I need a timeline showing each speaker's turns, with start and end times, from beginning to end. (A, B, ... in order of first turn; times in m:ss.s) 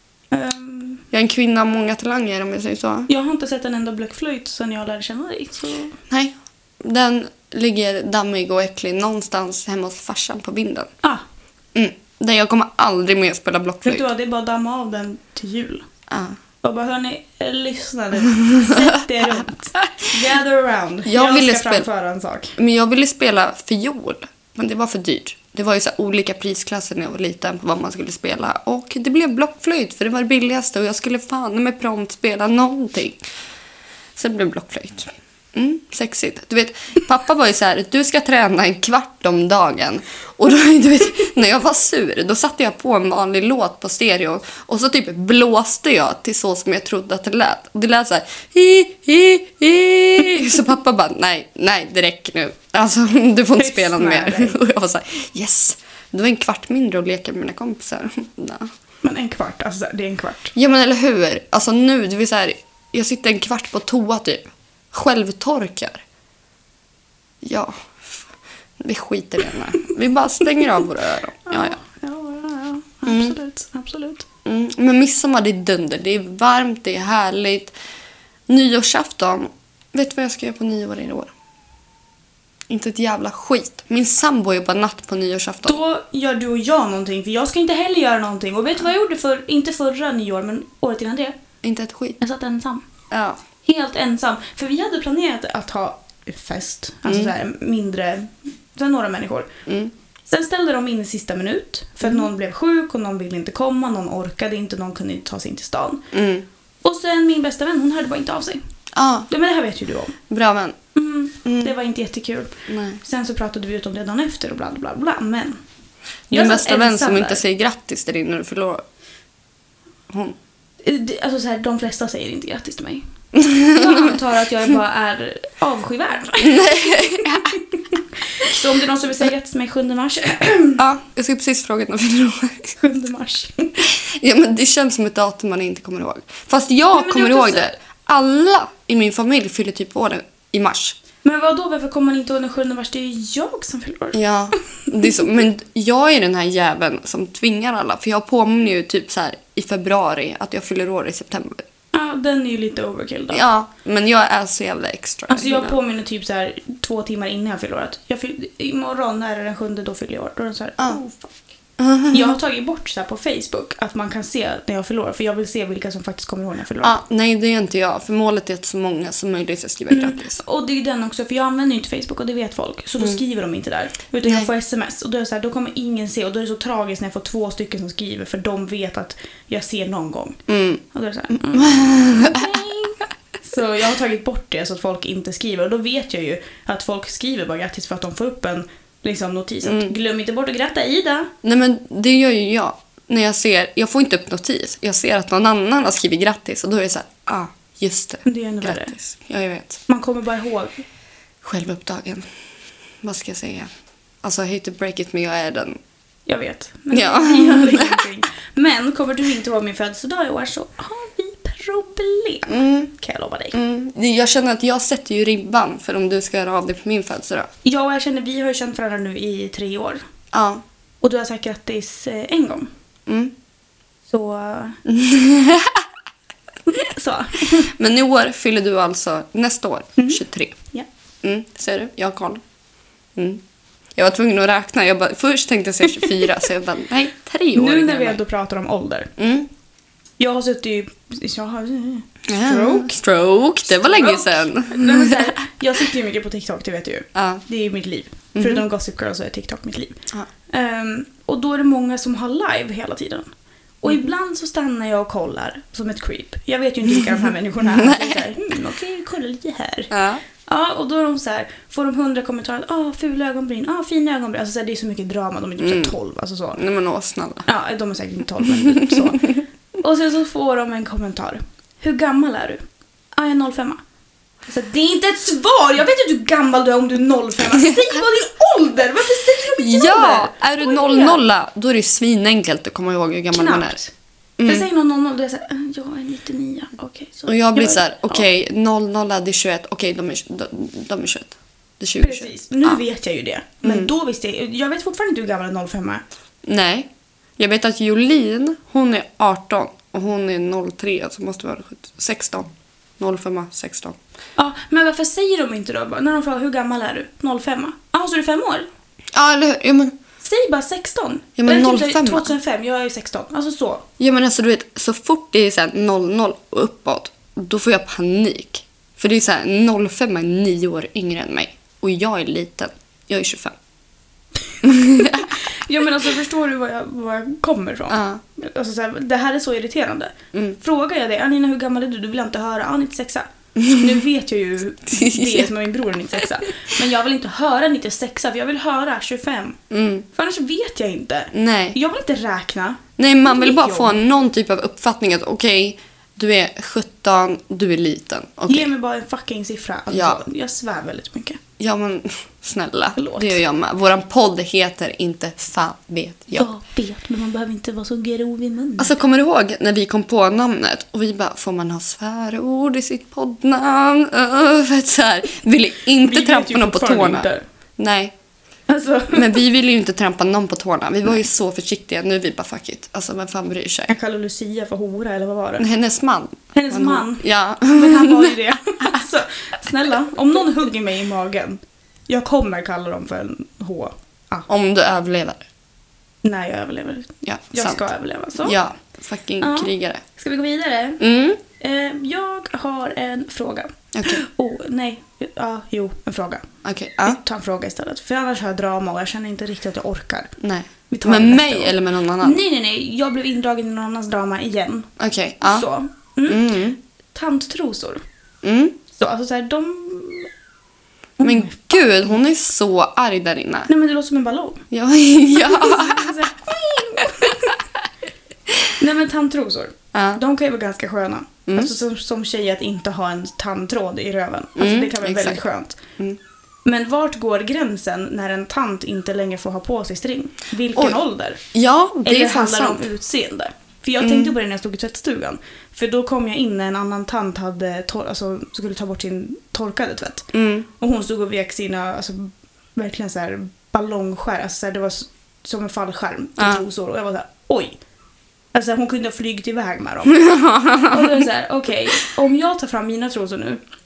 0:00.3-0:01.0 A
0:01.1-0:03.1 B
0:03.1-0:06.0 A
0:06.1-0:10.9 B
0:11.7-0:14.1 B
0:13.8-0:15.8 A
0:16.1-0:16.4 B
0:16.6-0:22.6 A
0:18.3-0:20.1 B
0:21.0-0:21.9 B
0:22.6-0:33.2 B
0:34.2-0:58.7 B
0:53.6-0:54.6 A
0:59.0-1:00.5 A
1:00.5-1:06.0 B
1:07.4-1:08.3 B
1:08.8-1:11.8 B
1:11.5-1:14.2 A
1:13.0-1:13.4 B
1:14.4-1:17.7 B
1:18.5-1:21.3 B
1:22.7-1:25.8 B
1:25.6-1:31.3 A
1:31.6-1:32.2 B
1:32.2-1:32.9 A
1:33.1-1:33.4 B
1:33.6-1:39.5 A
1:37.0-1:37.3 B
1:39.7-1:39.9 B
1:40.3-1:46.0 A
1:46.1-1:46.4 B
1:46.8-1:48.6 A
1:48.9-1:49.3 B
1:49.3-1:50.2 A
1:50.3-1:50.8 B
1:50.9-1:55.6 A
1:51.4-1:51.7 B
1:52.7-1:53.0 B
1:56.3-1:58.8 B
1:56.3-1:57.4 A
2:00.1-2:00.4 B
2:00.8-2:03.0 A
2:03.3-2:04.2 B
2:03.6-2:10.8 A
2:06.4-2:07.6 B
2:10.8-2:12.7 B
2:12.8-2:13.7 A
2:13.8-2:21.0 B
2:16.9-2:17.7 A
2:21.2-2:24.2 A
2:24.1-2:31.6 B
2:31.9-2:33.4 A
2:33.3-2:35.8 B
2:35.3-2:41.3 A
2:41.8-2:42.4 B
2:42.1-2:47.0 A
2:46.8-2:50.4 B
2:49.9-3:11.3 A
3:00.5-3:00.8 B
3:01.5-3:02.6 B
3:09.6-3:09.9 B
3:11.4-3:19.8 B
3:18.2-3:18.9 A
3:19.9-3:20.8 A
3:21.4-3:22.2 B
3:23.0-3:23.7 B
3:24.2-3:25.8 B
3:26.3-3:33.6 A
3:26.9-3:28.0 B
3:32.5-3:32.9 B
3:33.5-3:37.5 B
3:37.6-3:40.0 A
3:40.3-3:40.6 B
3:41.0-3:42.7 A
3:43.1-3:43.3 B
3:44.1-3:44.8 A
3:44.8-3:45.8 B
3:46.7-3:47.7 A
3:47.7-3:50.6 B
3:50.0-3:50.9 A
3:51.2-3:52.4 B
3:53.2-3:53.4 B
3:54.0-3:58.2 B
3:57.5-3:59.1 A
3:59.2-3:59.5 B
4:00.2-4:03.0 A
4:02.3-4:05.4 B
4:03.7-4:13.3 A
4:07.1-4:07.4 B
4:08.3-4:08.6 B
4:13.8-4:19.9 A
4:17.7-4:18.2 B
4:19.9-4:20.2 B
4:20.4-4:26.6 A
4:25.6-4:25.9 B
4:26.6-4:27.4 B
4:27.4-4:32.6 A
4:28.7-4:29.4 B
4:33.2-4:33.8 A
4:34.5-4:41.2 A
4:39.6-4:43.8 B
4:43.3-4:43.9 A
4:44.4-4:44.6 B
4:44.4-4:48.2 A
4:47.3-4:52.8 B
4:52.0-4:56.0 A
4:53.6-4:53.9 B
4:56.4-5:04.0 B
5:04.4-5:08.7 A
5:09.1-5:09.9 B
5:10.2-5:13.8 A
5:11.4-5:12.3 B
5:14.0-5:23.5 B
5:24.5-5:39.6 A
5:24.6-5:25.4 B
5:27.9-5:28.2 B
5:33.6-5:34.0 B
5:34.9-5:35.5 B
5:39.7-5:40.0 B
5:40.1-5:44.0 A
5:41.3-5:41.8 B
5:43.0-5:48.7 B
5:48.5-5:51.4 A
5:49.9-5:50.2 B
5:51.6-5:56.5 B
5:53.0-5:53.4 A
5:56.3-5:59.0 A
5:58.8-6:07.3 B
6:06.0-6:07.4 A
6:07.8-6:08.1 B
6:08.7-6:09.4 A
6:09.1-6:13.9 B
6:13.9-6:15.7 A
6:15.6-6:19.0 B
6:16.5-6:24.5 A
6:24.5-6:25.5 B
6:26.2-6:28.6 A
6:27.2-6:27.9 B
6:28.4-6:30.0 B
6:29.4-6:31.0 A
6:31.0-6:31.4 B
6:31.6-6:36.5 A
6:33.9-6:34.2 B
6:36.6-6:37.2 B
6:37.0-6:40.3 A
6:40.4-6:42.4 B
6:40.9-6:44.9 A
6:45.0-6:45.7 B
6:45.4-6:46.6 A
6:46.3-6:46.8 B
6:47.1-6:48.0 A
6:48.4-6:48.8 B
6:48.9-6:50.3 A
6:51.2-6:51.8 A
6:51.2-6:53.7 B
6:53.7-6:54.6 A
6:54.7-6:56.2 B
6:55.3-6:57.6 A
6:58.8-7:05.8 A
6:59.9-7:00.2 B
7:04.6-7:05.4 B
7:06.6-7:11.4 A
7:11.5-7:12.9 B
7:12.0-7:27.8 A
7:14.0-7:14.3 B
7:20.3-7:20.7 B
7:26.4-7:26.6 B
7:28.5-7:30.3 A
7:30.0-7:31.3 B
7:30.9-7:33.6 A